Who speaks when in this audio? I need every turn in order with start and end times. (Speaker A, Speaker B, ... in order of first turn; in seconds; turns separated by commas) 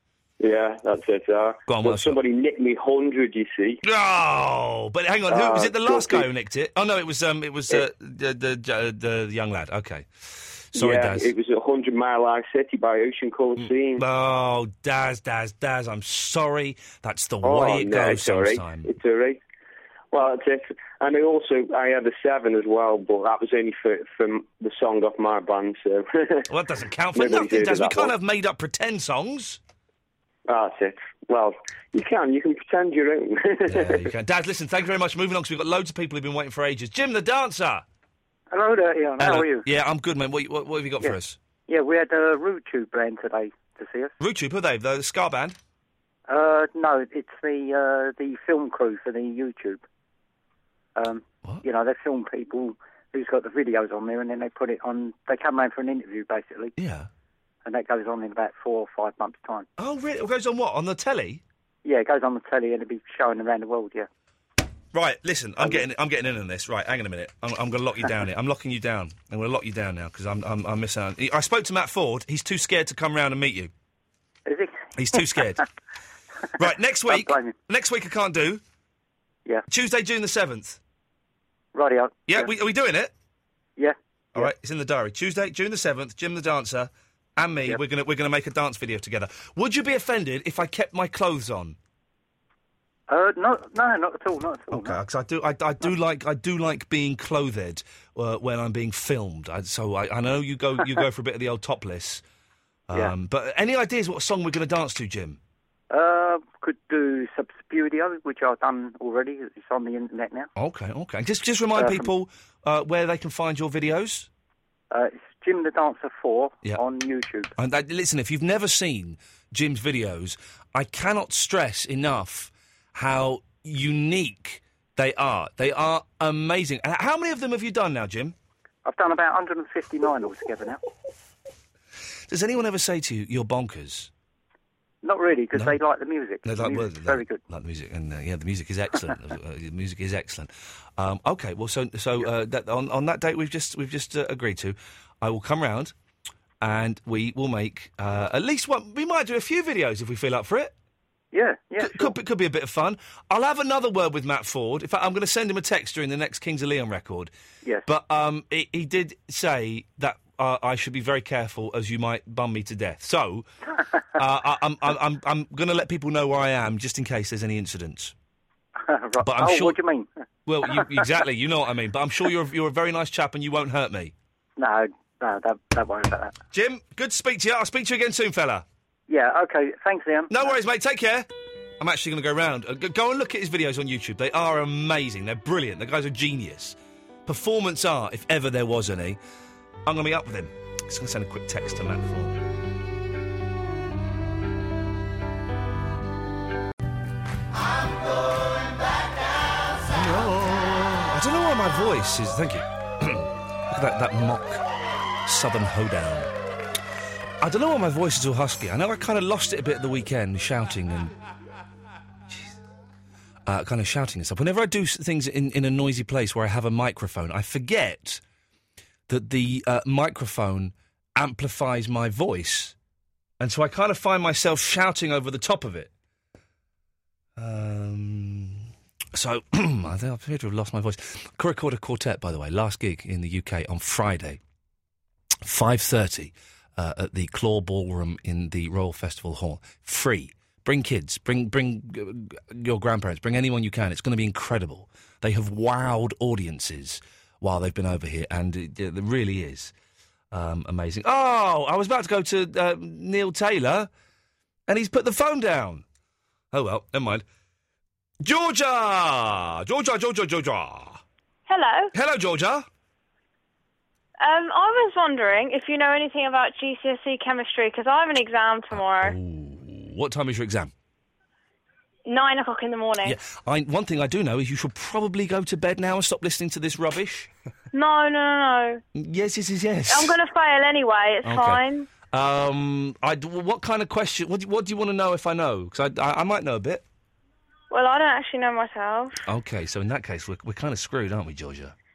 Speaker A: 0.4-3.8, Speaker B: 1.7-2.2, Speaker B: 3.8-11.3, Speaker A: 5.3-6.3, Speaker A: 10.8-14.0, Speaker B: 13.6-18.9, Speaker A: 17.4-19.4, Speaker A: 20.1-26.4, Speaker B: 26.5-29.6, Speaker A: 27.1-28.1, Speaker A: 30.5-34.0, Speaker B: 33.7-37.8, Speaker C: 38.5-39.6, Speaker B: 39.2-41.4, Speaker C: 41.7-44.1, Speaker B: 44.2-45.6, Speaker C: 46.3-49.8, Speaker C: 51.0-56.7, Speaker B: 56.8-57.1, Speaker C: 57.6-59.7, Speaker B: 59.8-61.4, Speaker C: 61.9-64.1, Speaker B: 64.9-73.7, Speaker C: 65.6-65.8, Speaker C: 74.5-75.5, Speaker B: 75.0-75.6, Speaker B: 76.6-78.6, Speaker C: 77.1-77.5, Speaker B: 79.7-80.8, Speaker C: 81.7-82.5, Speaker B: 82.3-83.1, Speaker C: 83.8-84.5, Speaker B: 84.3-91.8, Speaker C: 93.1-95.0, Speaker B: 94.7-102.2, Speaker B: 102.9-105.4, Speaker C: 105.9-110.5, Speaker B: 110.6-114.3, Speaker C: 111.8-112.1, Speaker C: 114.9-117.5, Speaker B: 117.6-128.3, Speaker C: 128.9-130.8, Speaker B: 132.3-134.1, Speaker C: 135.0-137.4, Speaker B: 135.5-135.8, Speaker B: 136.4-145.9, Speaker B: 146.6-150.7, Speaker C: 151.3-152.2, Speaker B: 151.8-157.3, Speaker B: 157.9-163.5, Speaker B: 164.2-168.1, Speaker C: 168.9-170.1, Speaker B: 169.2-169.8, Speaker B: 170.5-174.1, Speaker C: 170.8-171.0, Speaker C: 174.6-176.3, Speaker B: 176.5-178.6, Speaker C: 179.1-180.6, Speaker B: 180.3-181.3, Speaker B: 181.8-189.2, Speaker B: 189.9-192.4, Speaker B: 199.8-204.6, Speaker B: 205.2-206.3, Speaker B: 207.4-211.1, Speaker B: 212.3-212.6, Speaker B: 213.5-218.2, Speaker B: 219.1-222.8, Speaker B: 223.4-225.9, Speaker B: 227.4-234.4, Speaker B: 235.4-249.7, Speaker B: 250.3-253.9, Speaker B: 254.7-255.8, Speaker B: 256.5-257.2, Speaker B: 258.2-261.0, Speaker D: 261.5-261.9, Speaker B: 261.9-262.7, Speaker D: 264.2-269.2, Speaker B: 268.7-270.7, Speaker D: 272.1-273.2, Speaker B: 273.0-277.3, Speaker D: 277.7-278.8, Speaker B: 279.0-280.2, Speaker D: 279.9-281.9, Speaker B: 281.2-286.8, Speaker D: 287.7-289.2, Speaker B: 289.3-291.8